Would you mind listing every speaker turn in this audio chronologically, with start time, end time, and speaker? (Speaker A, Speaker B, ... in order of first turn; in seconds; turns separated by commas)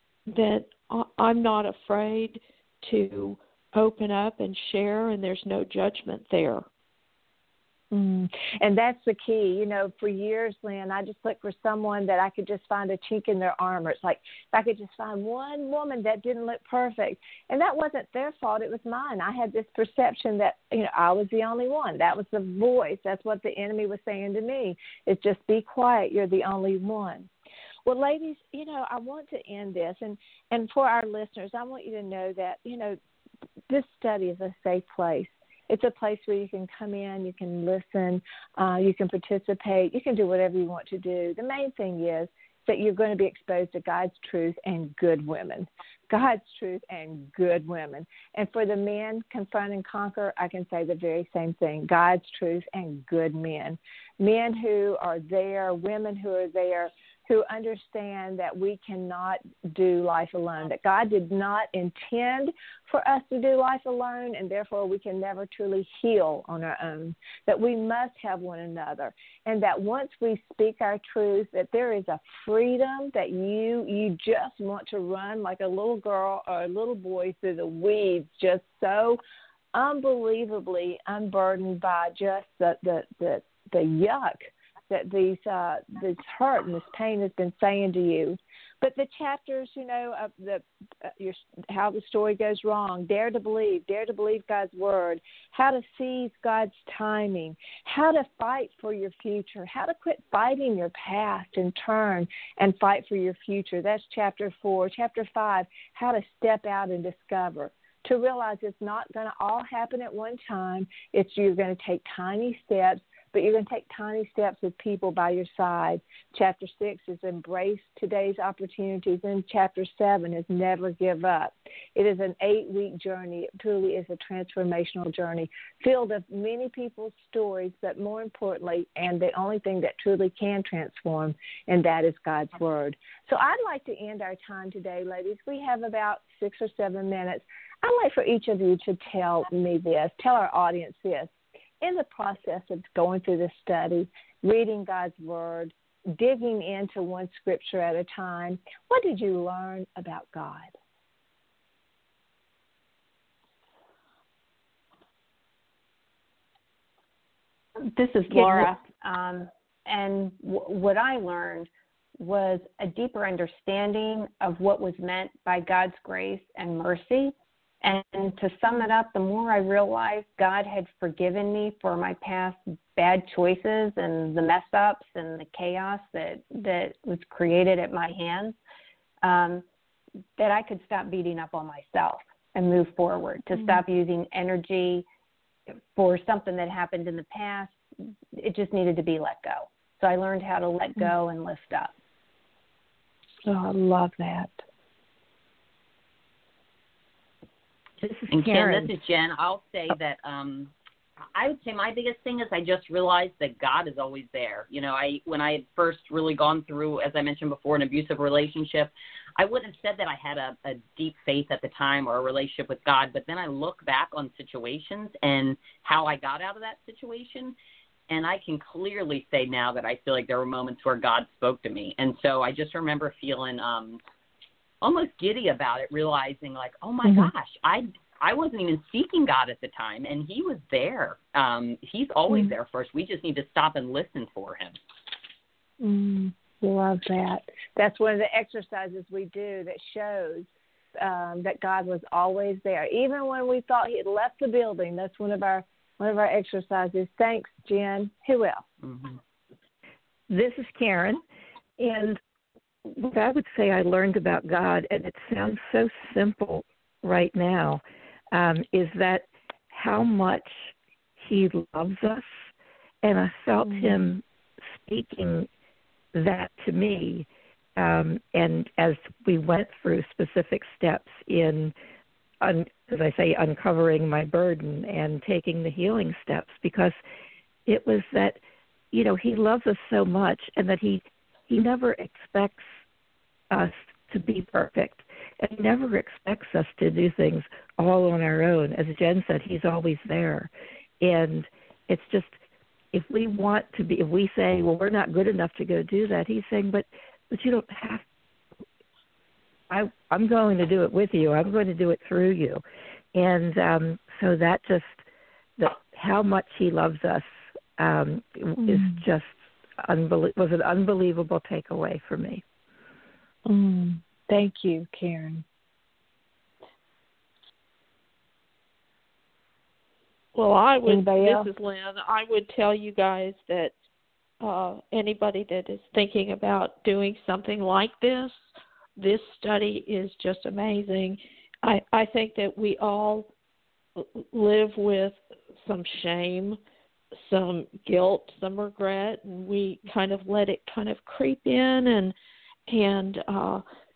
Speaker A: 0.3-6.7, Speaker B: 7.9-27.3, Speaker B: 27.9-33.0, Speaker B: 33.7-79.2, Speaker B: 79.7-150.7, Speaker C: 157.8-178.6, Speaker B: 158.4-158.6, Speaker C: 179.2-179.6, Speaker C: 180.4-185.0, Speaker C: 185.7-187.8, Speaker C: 188.3-191.9, Speaker B: 193.4-194.6, Speaker D: 198.0-198.9, Speaker E: 198.3-200.7, Speaker E: 201.3-217.5, Speaker E: 218.1-224.0, Speaker E: 224.8-234.8, Speaker B: 227.0-227.3, Speaker B: 235.8-248.6, Speaker E: 248.8-249.2, Speaker D: 250.3-251.2, Speaker D: 251.8-252.2, Speaker D: 252.8-262.3, Speaker D: 263.0-265.5, Speaker B: 263.6-264.1, Speaker D: 266.1-271.7, Speaker D: 272.4-277.0, Speaker D: 277.6-278.4, Speaker D: 278.9-282.7, Speaker D: 283.5-292.4, Speaker D: 292.9-298.0, Speaker D: 299.7-302.6, Speaker D: 303.1-305.0, Speaker D: 305.6-312.4, Speaker B: 308.6-309.0, Speaker B: 313.4-315.4, Speaker A: 320.3-323.7, Speaker B: 320.9-321.5, Speaker A: 324.4-328.4, Speaker A: 329.0-333.3, Speaker A: 333.9-336.6, Speaker A: 337.1-342.1, Speaker A: 342.7-343.6